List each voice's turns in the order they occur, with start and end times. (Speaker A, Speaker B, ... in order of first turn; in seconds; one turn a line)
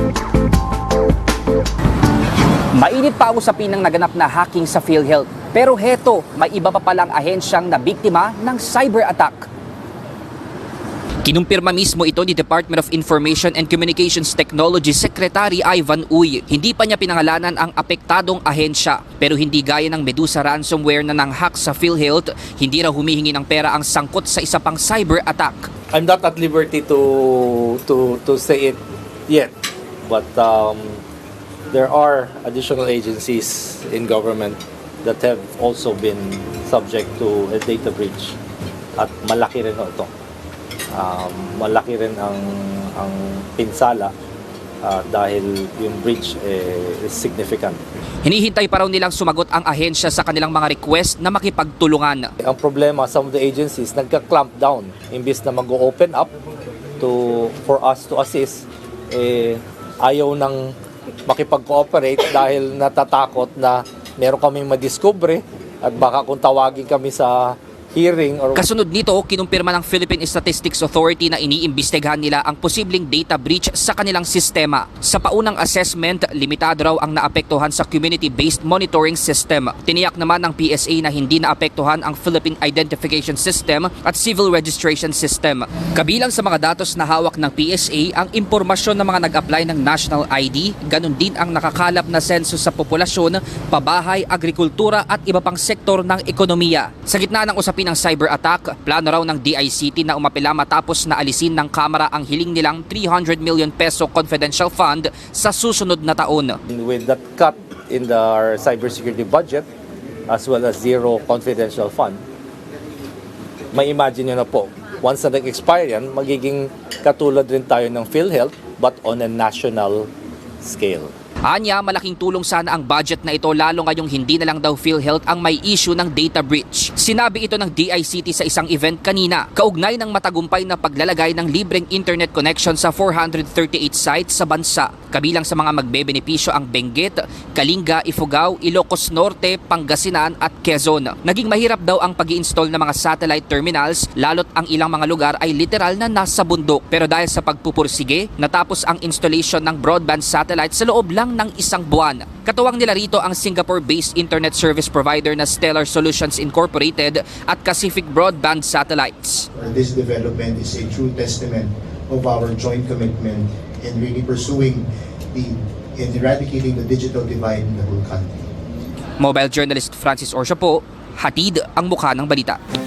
Speaker A: 2.8-9.5
Speaker A: 11.2-25.7
Speaker B: 25.9-29.5
Speaker B: 30.0-31.0
Speaker B: 31.7-38.4
Speaker B: 39.0-40.1
Speaker B: 40.9-44.1
Speaker B: 44.8-47.8
Speaker A: 48.2-52.3
Speaker B: 52.4-56.3
Speaker B: 57.0-60.7
Speaker B: 61.3-68.6
Speaker A: 68.5-106.6
Speaker B: 106.7-109.7
Speaker B: 110.3-112.2
Speaker B: 113.7-120.1
Speaker B: 120.6-121.1
Speaker A: 121.5-159.5
Speaker C: 159.5-168.3
Speaker A: 169.2-172.6